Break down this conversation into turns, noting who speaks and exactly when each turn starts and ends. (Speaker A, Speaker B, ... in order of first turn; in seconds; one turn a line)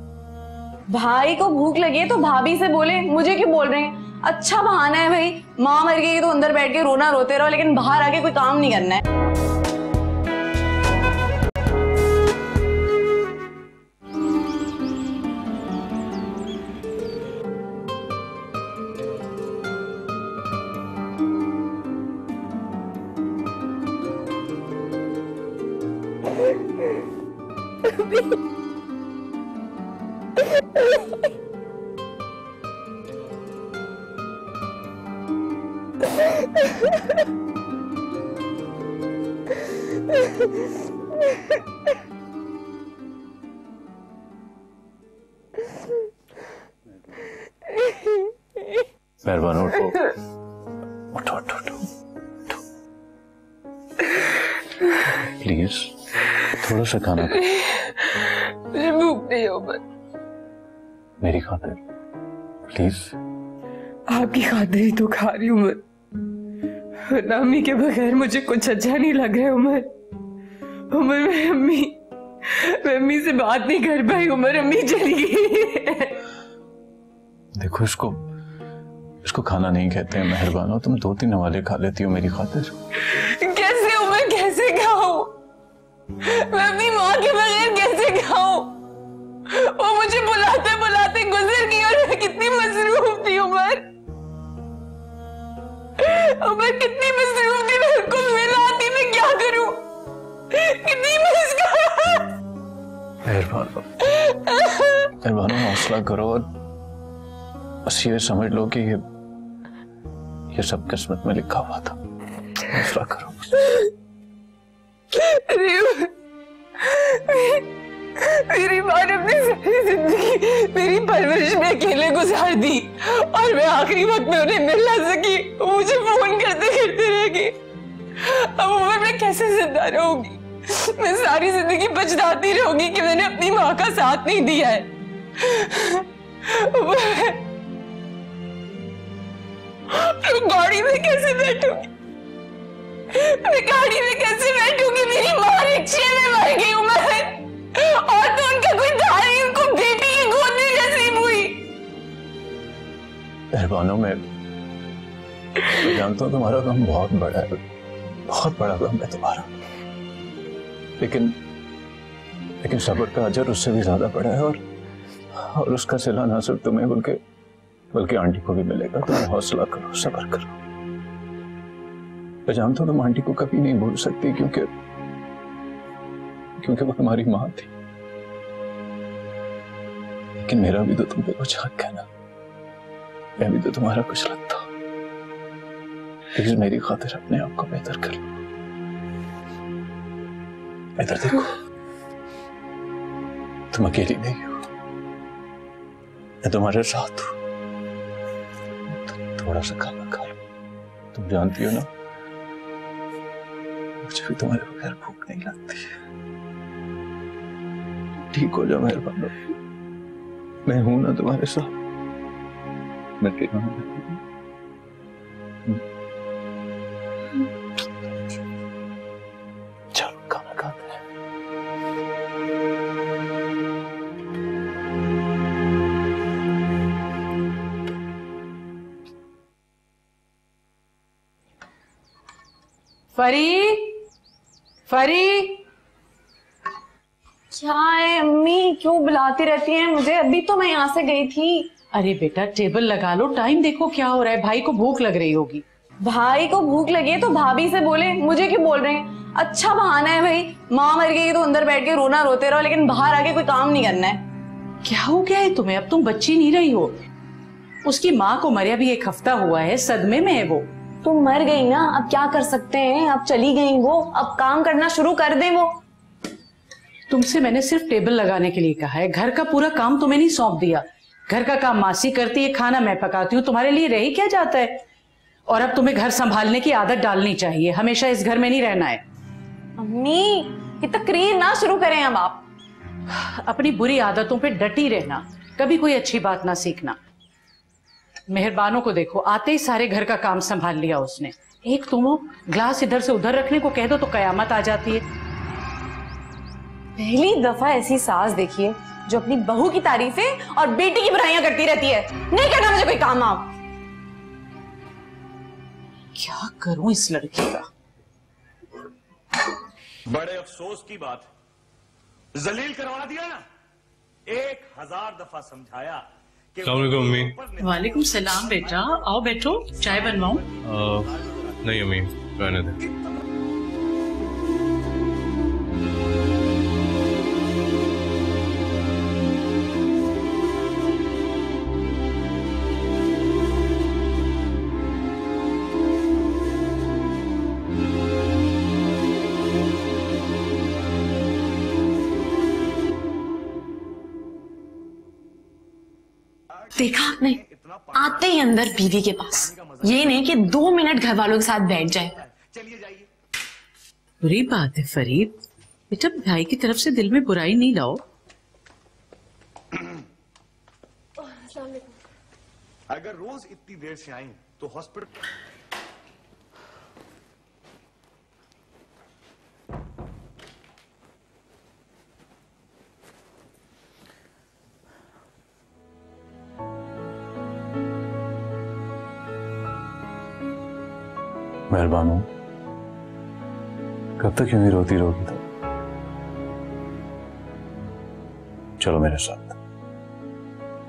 Speaker A: 0.9-9.0
Speaker B: 49.2-50.0
Speaker B: 51.1-51.9
Speaker B: 55.2-55.9
Speaker B: 56.6-57.4
Speaker C: 57.2-59.8
Speaker B: 61.2-61.8
Speaker B: 62.7-63.1
Speaker C: 64.1-65.8
Speaker C: 67.1-69.9
Speaker C: 70.9-76.2
Speaker B: 77.6-78.2
Speaker B: 79.2-82.8
Speaker C: 83.1-85.3
Speaker C: 86.2-88.7
Speaker C: 89.5-93.9
Speaker C: 96.0-99.8
Speaker C: 100.5-102.3
Speaker B: 103.2-103.9
Speaker C: 104.5-105.1
Speaker B: 105.2-106.5
Speaker B: 107.8-109.0
Speaker B: 110.5-112.0
Speaker B: 112.6-113.5
Speaker C: 115.1-116.1
Speaker C: 116.8-117.7
Speaker C: 118.2-127.6
Speaker C: 128.2-137.4
Speaker C: 139.9-141.9
Speaker C: 143.1-151.7
Speaker B: 153.5-154.2
Speaker B: 155.8-157.6
Speaker B: 158.3-159.5
Speaker B: 161.0-161.4
Speaker B: 162.6-164.6
Speaker B: 165.3-167.2
Speaker B: 167.9-170.6
Speaker B: 172.5-174.7
Speaker B: 176.6-177.7
Speaker B: 180.4-182.1
Speaker B: 183.4-184.7
Speaker B: 186.3-188.3
Speaker B: 191.0-191.5
Speaker B: 193.7-194.6
Speaker B: 196.4-197.4
Speaker B: 198.9-200.3
Speaker B: 201.1-201.9
Speaker B: 204.0-205.9
Speaker B: 208.3-209.4
Speaker B: 210.7-211.7
Speaker B: 213.2-214.2
Speaker B: 219.9-221.0
Speaker D: 233.2-234.0
Speaker D: 234.9-235.6
Speaker A: 237.5-241.7
Speaker D: 241.9-245.6
Speaker A: 246.0-254.2
Speaker D: 254.8-257.0
Speaker D: 257.9-260.7
Speaker A: 261.0-265.7
Speaker D: 267.1-274.8
Speaker D: 275.5-279.0
Speaker A: 279.8-282.4
Speaker D: 283.1-287.0
Speaker D: 288.3-295.0
Speaker A: 297.0-303.5
Speaker D: 306.2-307.7
Speaker E: 310.1-311.3
Speaker E: 312.4-313.4
Speaker E: 314.3-316.0
Speaker E: 316.6-319.2
Speaker F: 316.6-317.4
Speaker D: 317.6-320.4
Speaker E: 319.8-321.8
Speaker F: 320.6-321.1
Speaker F: 321.6-322.8
Speaker E: 322.8-323.2
Speaker E: 346.6-348.6
Speaker A: 346.8-347.4
Speaker A: 347.9-352.2
Speaker E: 349.2-350.3
Speaker E: 352.0-353.1
Speaker D: 354.2-355.3
Speaker D: 355.9-358.0
Speaker E: 362.9-365.1
Speaker B: 381.7-382.3
Speaker B: 384.2-385.4
Speaker B: 388.8-389.6